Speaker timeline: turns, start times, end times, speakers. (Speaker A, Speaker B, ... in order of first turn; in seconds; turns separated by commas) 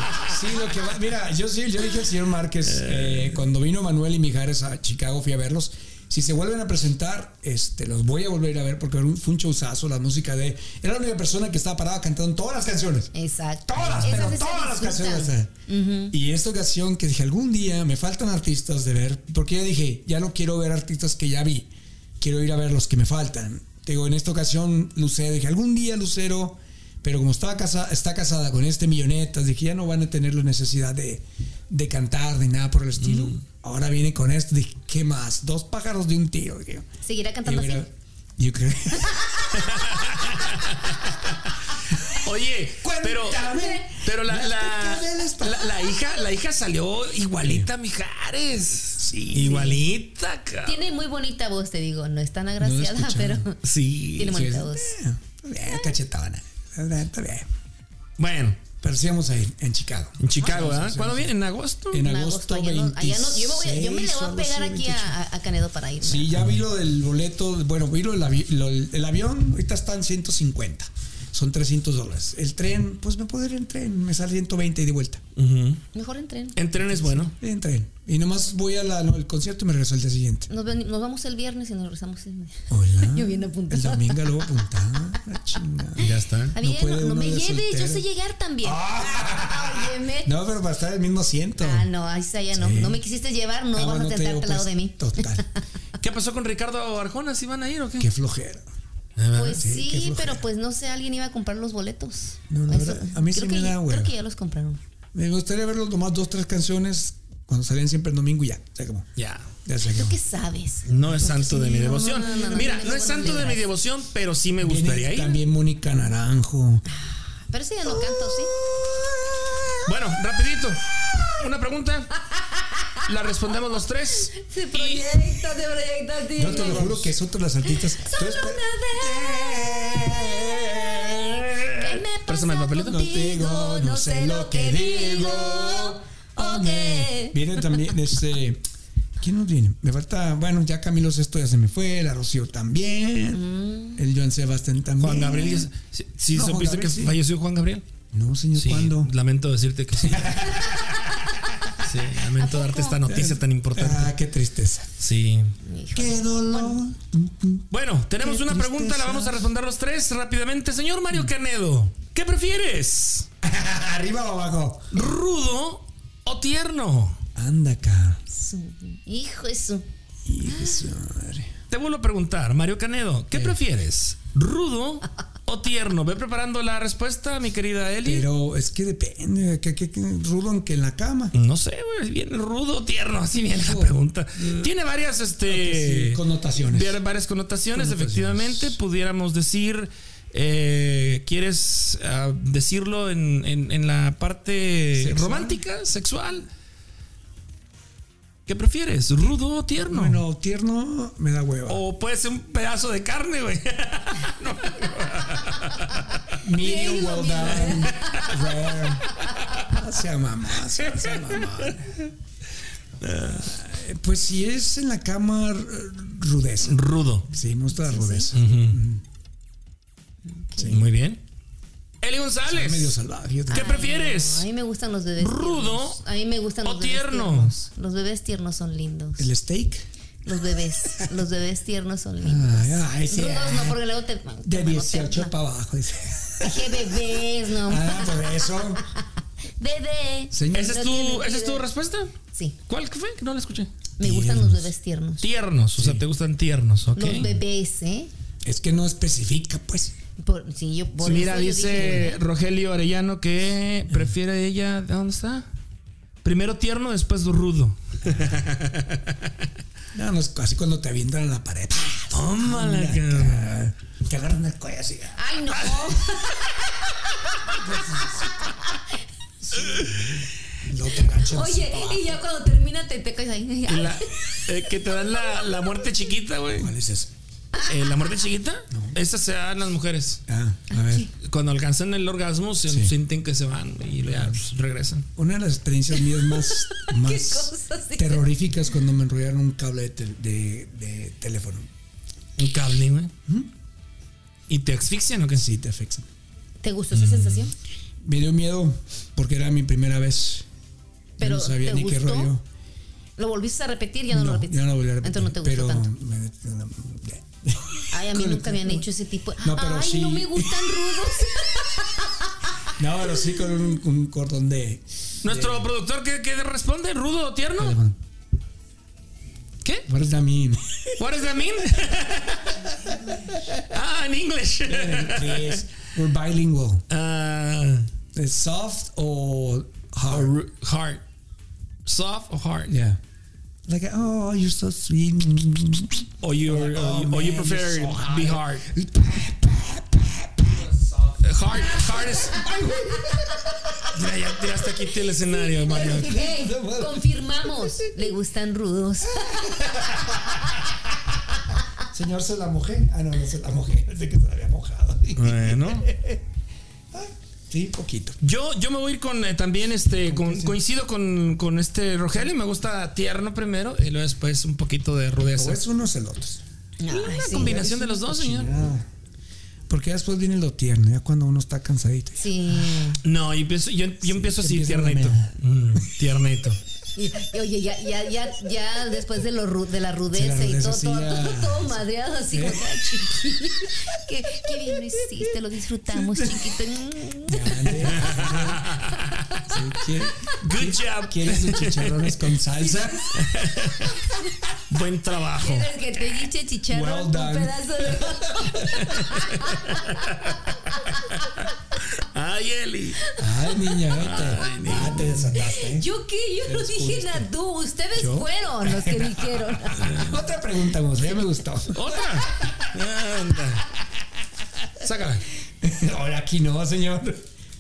Speaker A: 0.2-13.1, Speaker B: 2.8-3.4, Speaker C: 13.1-16.1, Speaker A: 13.7-15.5, Speaker A: 16.1-36.9, Speaker C: 37.0-37.9, Speaker A: 37.5-39.5, Speaker C: 39.0-39.4, Speaker B: 39.6-41.5, Speaker B: 42.1-50.8, Speaker A: 42.8-45.9, Speaker A: 47.4-47.7, Speaker A: 49.0-49.8, Speaker C: 49.4-49.8, Speaker C: 50.7-53.6, Speaker A: 52.6-53.5, Speaker B: 53.6-54.5, Speaker C: 54.2-54.9, Speaker A: 54.2-57.5, Speaker B: 58.2-58.6, Speaker A: 58.8-61.3, Speaker B: 60.2-62.1, Speaker C: 60.4-60.7, Speaker A: 61.9-65.2, Speaker C: 62.0-66.3, Speaker A: 66.0-75.2, Speaker B: 75.4-75.8, Speaker C: 75.9-76.6, Speaker B: 76.6-77.3, Speaker A: 76.9-80.5, Speaker C: 80.5-84.6, Speaker A: 82.7-88.0, Speaker B: 86.0-86.6, Speaker C: 86.5-90.3, Speaker A: 88.6-91.9, Speaker C: 91.6-95.4, Speaker A: 92.5-93.0, Speaker A: 93.7-95.5, Speaker B: 96.0-98.1, Speaker A: 98.0-98.7, Speaker B: 99.2-99.7, Speaker C: 99.3-104.8, Speaker A: 99.5-100.4, Speaker A: 102.5-104.1, Speaker A: 105.1-109.1, Speaker B: 109.2-109.5, Speaker A: 109.7-110.2, Speaker C: 109.8-113.6, Speaker B: 110.9-115.4, Speaker A: 111.8-113.5, Speaker A: 114.6-116.8, Speaker C: 117.0-118.5, Speaker A: 117.9-119.9, Speaker B: 119.8-122.1, Speaker B: 123.0-125.1, Speaker C: 124.4-127.1, Speaker A: 126.3-131.9, Speaker B: 126.5-126.9, Speaker C: 127.7-137.8, Speaker B: 132.2-133.0, Speaker A: 132.8-138.6, Speaker A: 139.2-143.4, Speaker C: 143.3-144.0, Speaker A: 144.0-145.7, Speaker B: 145.0-147.8, Speaker A: 146.3-147.2, Speaker A: 148.1-149.1, Speaker B: 148.6-150.6, Speaker A: 150.0-151.1, Speaker B: 151.8-154.2, Speaker C: 152.4-153.0, Speaker A: 153.1-154.9, Speaker B: 155.0-155.5, Speaker C: 155.7-156.8, Speaker A: 155.9-157.7, Speaker B: 157.7-163.3, Speaker A: 158.2-159.5, Speaker A: 163.4-164.9, Speaker B: 164.9-167.2, Speaker A: 167.3-168.2, Speaker C: 168.3-169.9, Speaker A: 170.3-171.5, Speaker C: 170.4-170.8, Speaker B: 171.7-178.3, Speaker A: 178.0-181.3, Speaker B: 181.3-196.5, Speaker A: 183.6-184.7, Speaker A: 185.4-187.0, Speaker A: 187.7-188.8, Speaker A: 195.0-195.6, Speaker B: 198.5-200.2, Speaker A: 199.9-201.8, Speaker B: 201.7-206.2, Speaker A: 206.4-212.1, Speaker C: 206.6-208.4, Speaker C: 209.3-209.6, Speaker B: 210.8-211.7, Speaker B: 213.0-213.5, Speaker A: 213.2-219.0, Speaker B: 216.6-217.3, Speaker C: 217.7-218.3, Speaker B: 218.3-218.8, Speaker C: 220.3-220.8, Speaker A: 220.6-220.9, Speaker B: 220.7-221.2, Speaker B: 222.0-222.9, Speaker A: 222.5-223.7, Speaker B: 223.5-224.5, Speaker C: 223.5-229.3, Speaker B: 225.2-226.0, Speaker B: 226.6-227.6, Speaker A: 229.2-229.8, Speaker C: 230.2-235.3, Speaker A: 232.2-233.8, Speaker A: 234.4-238.8, Speaker C: 236.4-238.5, Speaker C: 239.6-241.7, Speaker A: 240.3-240.8, Speaker B: 240.5-242.1, Speaker B: 242.7-243.7, Speaker C: 244.0-245.3, Speaker A: 244.0-244.7, Speaker B: 245.2-247.3, Speaker A: 245.8-246.1, Speaker C: 247.0-248.1, Speaker A: 247.1-247.4, Speaker A: 248.4-249.9, Speaker C: 250.2-252.2, Speaker B: 251.0-255.5, Speaker B: 256.2-259.2, Speaker A: 258.1-258.4, Speaker A: 259.9-265.2, Speaker B: 262.1-263.5, Speaker C: 265.2-268.8, Speaker A: 267.5-268.3, Speaker A: 269.4-272.2, Speaker C: 270.9-274.4, Speaker B: 273.7-276.7, Speaker A: 276.6-277.1, Speaker B: 277.7-280.2, Speaker A: 278.7-279.0, Speaker A: 280.3-281.1, Speaker C: 280.7-281.1, Speaker B: 281.2-285.1, Speaker A: 282.7-282.9, Speaker A: 284.1-284.4, Speaker A: 285.2-291.7, Speaker C: 286.1-288.2, Speaker B: 292.4-293.1, Speaker B: 294.5-295.4, Speaker A: 295.3-296.1, Speaker C: 296.6-297.5, Speaker A: 296.9-297.5, Speaker A: 298.0-300.5, Speaker A: 301.2-302.4, Speaker C: 301.2-302.3, Speaker C: 303.2-305.9, Speaker A: 304.1-308.9, Speaker C: 307.9-312.7, Speaker A: 309.4-311.0, Speaker A: 312.8-315.7, Speaker B: 315.2-317.8, Speaker A: 317.6-318.0, Speaker B: 319.6-319.9, Speaker A: 319.9-321.0, Speaker B: 321.0-322.7, Speaker A: 322.9-323.5, Speaker B: 323.6-325.6, Speaker A: 324.7-326.9, Speaker B: 326.9-327.9, Speaker A: 328.1-330.3, Speaker B: 330.1-331.0, Speaker B: 331.9-332.7, Speaker A: 332.7-333.0, Speaker A: 333.7-343.8, Speaker B: 336.2-338.6, Speaker B: 341.2-342.4, Speaker B: 343.9-346.2, Speaker C: 345.6-350.4, Speaker A: 345.6-348.1, Speaker A: 349.1-350.8, Speaker A: 351.9-356.2, Speaker B: 355.1-355.9, Speaker A: 356.9-358.2, Speaker B: 358.2-365.6, Speaker A: 360.1-360.6, Speaker A: 365.4-366.4, Speaker C: 366.8-367.6, Speaker B: 366.9-368.6, Speaker A: 367.3-368.9, Speaker A: 369.7-372.9, Speaker C: 372.2-373.0, Speaker B: 373.0-376.6, Speaker A: 374.0-375.3, Speaker C: 376.9-388.3, Speaker A: 380.1-382.9, Speaker A: 384.6-385.2, Speaker A: 385.9-386.6, Speaker A: 387.2-388.7, Speaker B: 387.9-389.4, Speaker A: 389.4-393.2, Speaker B: 390.4-392.1, Speaker B: 393.1-394.1, Speaker B: 394.7-395.7, Speaker C: 395.4-401.0, Speaker A: 396.7-399.3, Speaker B: 398.8-400.5, Speaker B: 401.0-403.0, Speaker A: 403.2-405.9, Speaker C: 403.2-404.6, Speaker B: 404.0-405.3, Speaker C: 405.2-410.1, Speaker A: 406.4-407.3, Speaker A: 407.9-412.7, Speaker B: 409.8-410.2, Speaker B: 411.7-413.7, Speaker B: 414.8-415.2, Speaker A: 415.6-417.2